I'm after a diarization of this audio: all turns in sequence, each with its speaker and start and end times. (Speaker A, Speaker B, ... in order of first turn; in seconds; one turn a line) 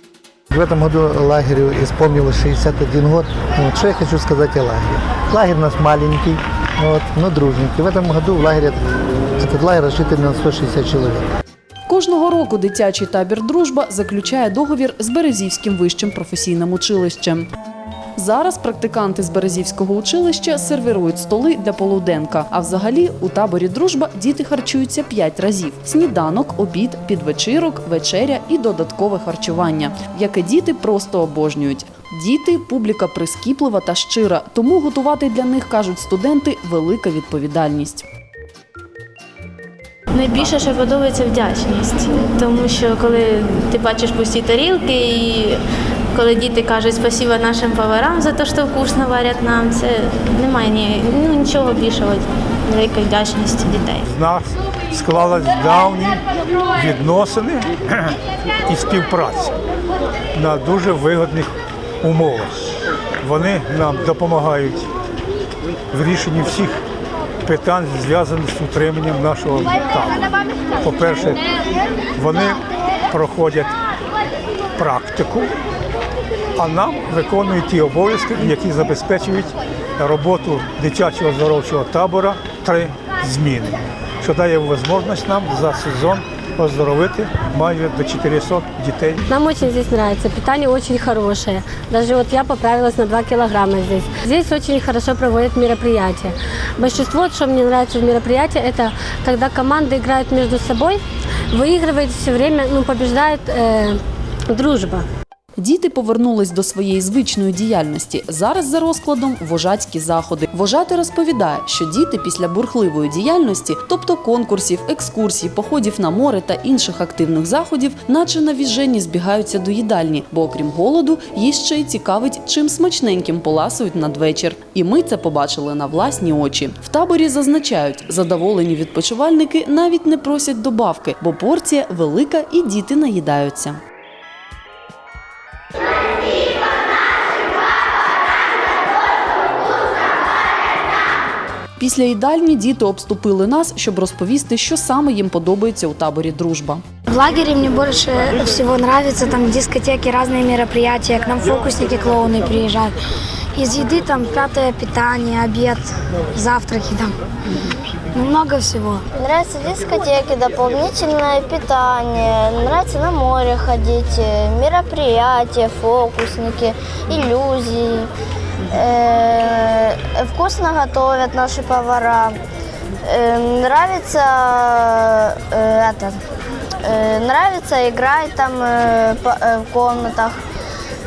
Speaker A: 0.5-8.8
Speaker A: 9.4-11.2
Speaker B: 11.9-17.5
Speaker B: 18.2-38.1
Speaker C: 40.1-45.6
Speaker C: 46.1-54.1
Speaker D: 54.1-56.2
Speaker D: 56.7-59.5
Speaker D: 60.4-62.6
Speaker D: 63.2-64.9
Speaker D: 65.9-66.8
Speaker D: 67.5-71.4
Speaker D: 72.2-73.7
Speaker D: 74.8-75.5
Speaker D: 76.6-89.3
Speaker E: 89.3-105.1
Speaker B: 105.6-133.8
Speaker B: 141.8-146.8
Speaker F: 147.1-153.0
Speaker F: 153.5-157.2
Speaker F: 158.1-159.0
Speaker G: 159.2-168.1
Speaker G: 168.7-172.4
Speaker G: 173.0-176.2
Speaker G: 176.8-180.4